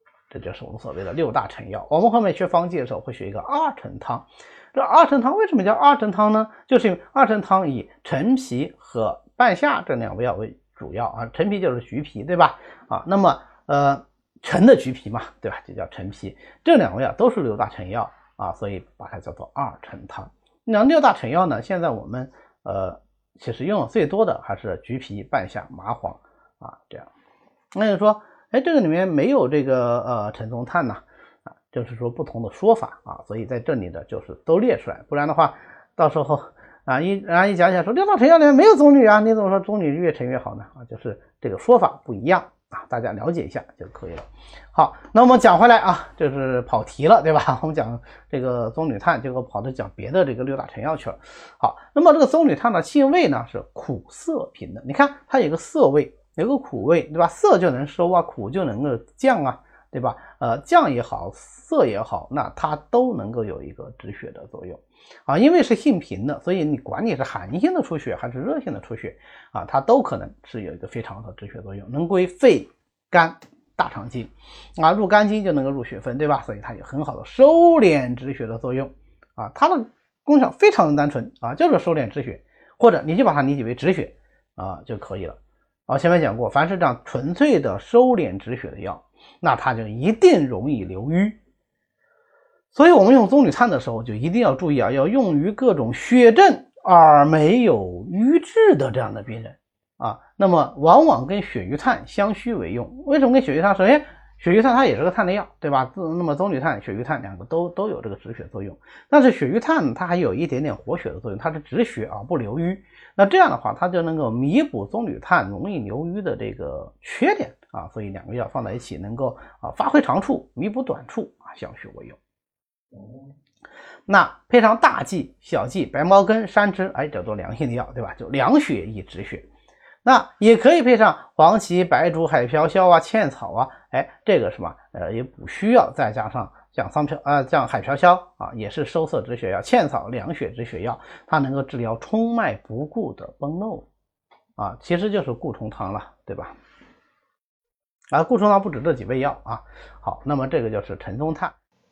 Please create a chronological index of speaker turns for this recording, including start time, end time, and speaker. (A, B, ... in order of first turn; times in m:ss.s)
0:00.3-0:27.1 A
0:27.7-0:31.0 A
0:31.7-1:31.4 A
1:32.7-2:02.2 A
2:04.1-2:09.5 A
2:10.0-2:23.9 A
2:24.6-2:26.6 A
2:28.1-2:31.6 A